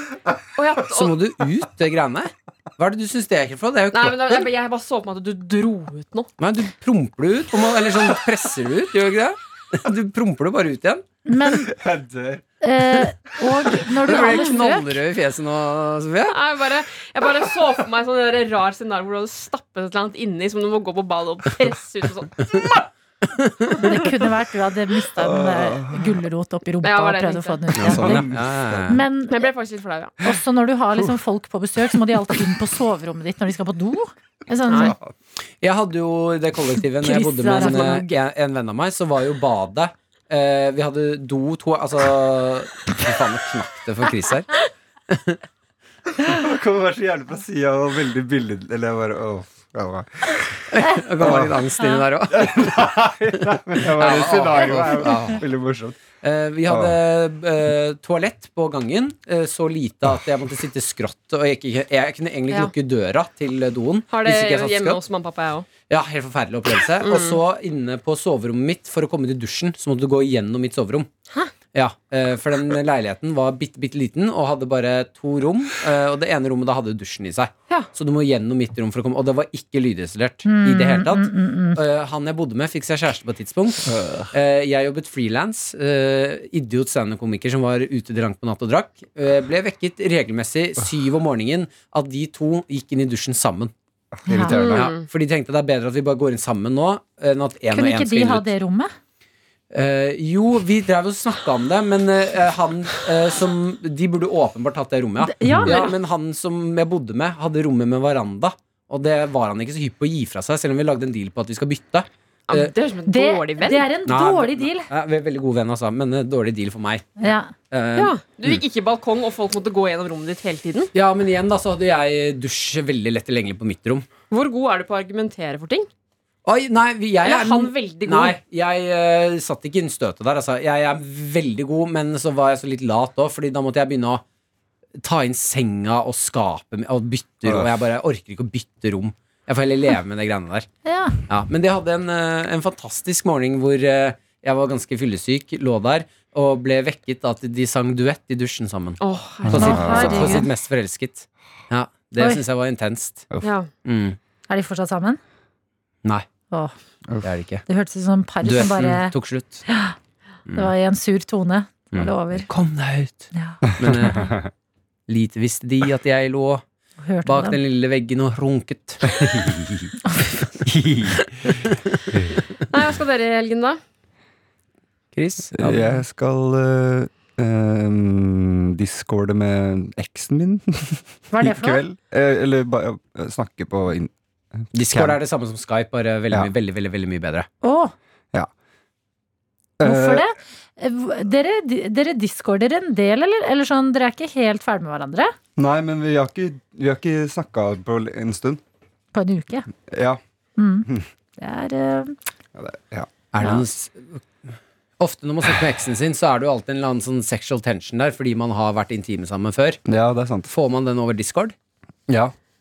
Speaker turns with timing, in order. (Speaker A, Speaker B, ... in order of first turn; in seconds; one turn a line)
Speaker A: 0.6-1.1
Speaker B: 0.9-4.5
Speaker A: 3.9-6.3
Speaker B: 6.4-11.0
Speaker C: 11.3-11.7
Speaker D: 11.7-12.4
Speaker C: 12.6-15.0
Speaker B: 13.7-16.4
Speaker A: 16.3-22.8
Speaker B: 23.4-23.8
Speaker C: 23.8-29.4
Speaker D: 25.2-26.2
Speaker A: 26.8-28.1
Speaker B: 27.8-29.0
Speaker D: 27.8-28.9
Speaker A: 29.3-30.2
Speaker C: 30.2-35.0
Speaker A: 34.7-35.0
Speaker D: 34.8-35.1
Speaker B: 35.6-45.4
Speaker C: 37.0-38.0
Speaker A: 37.5-38.1
Speaker D: 46.2-51.7
Speaker B: 50.7-53.0
Speaker D: 52.3-56.0
Speaker B: 53.8-55.4
Speaker B: 56.2-65.0
Speaker D: 56.7-57.0
Speaker A: 64.1-65.7
Speaker B: 65.9-71.1
Speaker A: 67.0-67.4
Speaker B: 71.7-93.7
Speaker C: 80.5-81.8
Speaker D: 83.9-84.3
Speaker D: 94.2-94.9
Speaker C: 94.3-94.8
Speaker A: 94.5-95.1
Speaker B: 94.7-98.5
Speaker C: 97.7-98.9
Speaker B: 99.7-112.7
Speaker C: 105.2-105.9
Speaker A: 105.7-106.0
Speaker A: 112.5-113.9
Speaker C: 113.1-114.9
Speaker B: 114.0-117.1
Speaker C: 117.2-117.5
Speaker B: 117.7-118.1
Speaker A: 118.0-120.9
Speaker B: 120.9-124.1
Speaker A: 124.3-125.9
Speaker B: 126.5-134.2
Speaker A: 127.2-128.4
Speaker B: 135.0-140.7
Speaker D: 137.5-137.8
Speaker C: 140.8-141.2
Speaker B: 141.3-153.3
Speaker A: 149.0-150.4
Speaker D: 149.4-150.4
Speaker C: 149.5-150.5
Speaker C: 152.2-152.4
Speaker A: 153.4-153.7
Speaker B: 153.8-154.2
Speaker C: 154.5-155.2
Speaker B: 157.2-157.7
Speaker C: 157.7-159.1
Speaker B: 158.4-159.7
Speaker C: 159.7-159.9
Speaker C: 160.6-162.5
Speaker B: 161.9-164.3
Speaker C: 163.3-163.6
Speaker D: 163.8-164.5
Speaker B: 165.1-166.6
Speaker C: 167.0-167.6
Speaker B: 167.2-170.6
Speaker D: 170.7-172.4
Speaker B: 171.5-171.8
Speaker A: 172.7-173.8
Speaker B: 175.2-176.0
Speaker D: 175.6-185.2
Speaker C: 181.3-181.8
Speaker B: 184.7-187.5
Speaker C: 187.6-187.9
Speaker D: 189.8-190.3
Speaker C: 189.8-195.3
Speaker D: 195.6-198.6
Speaker C: 199.1-199.7
Speaker D: 199.9-200.2
Speaker C: 200.6-200.9
Speaker C: 201.4-202.2
Speaker D: 202.6-203.1
Speaker B: 203.3-204.2
Speaker B: 205.0-209.8
Speaker D: 209.9-210.5
Speaker B: 210.5-211.6